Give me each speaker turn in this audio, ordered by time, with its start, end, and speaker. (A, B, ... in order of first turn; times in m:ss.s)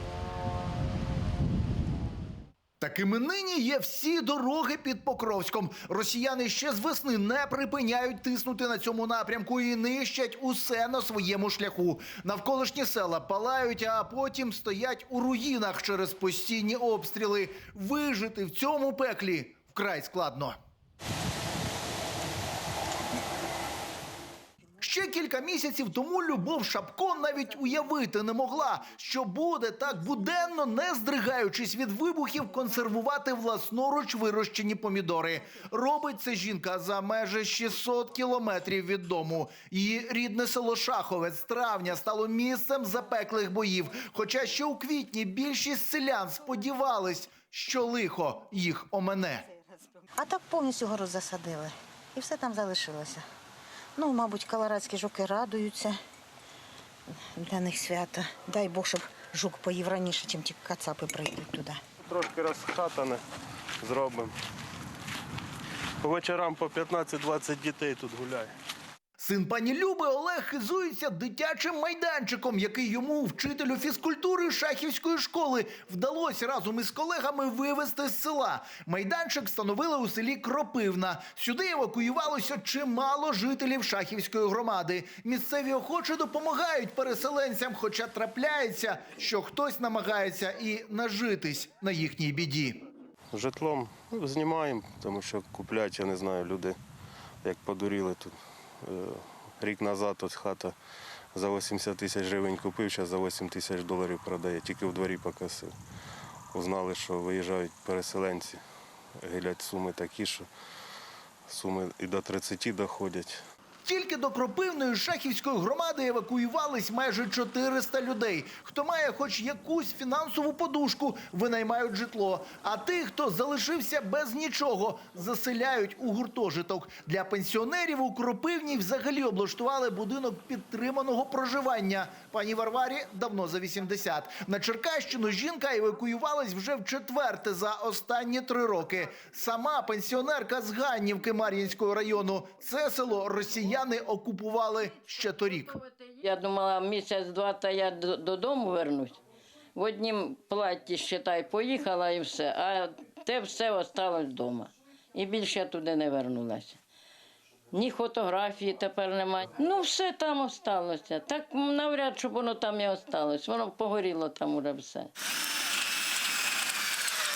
0:02.8-0:20.6 A
0:24.8-0:49.4 A
0:50.2-0:53.2 B
0:54.0-0:56.0 B
0:57.2-1:01.8 B
1:02.1-1:03.2 C
1:03.8-1:04.3 C
1:06.0-1:08.5 C
1:09.2-1:32.8 A
1:33.3-1:36.8 C
1:37.4-1:40.8 C
1:41.3-1:45.7 C
1:46.5-1:48.6 C
1:49.2-1:50.5 C
1:51.5-1:53.4 C
1:53.8-2:25.8 A
2:26.1-2:29.2 D
2:29.8-2:36.8 D
2:37.7-2:45.1 D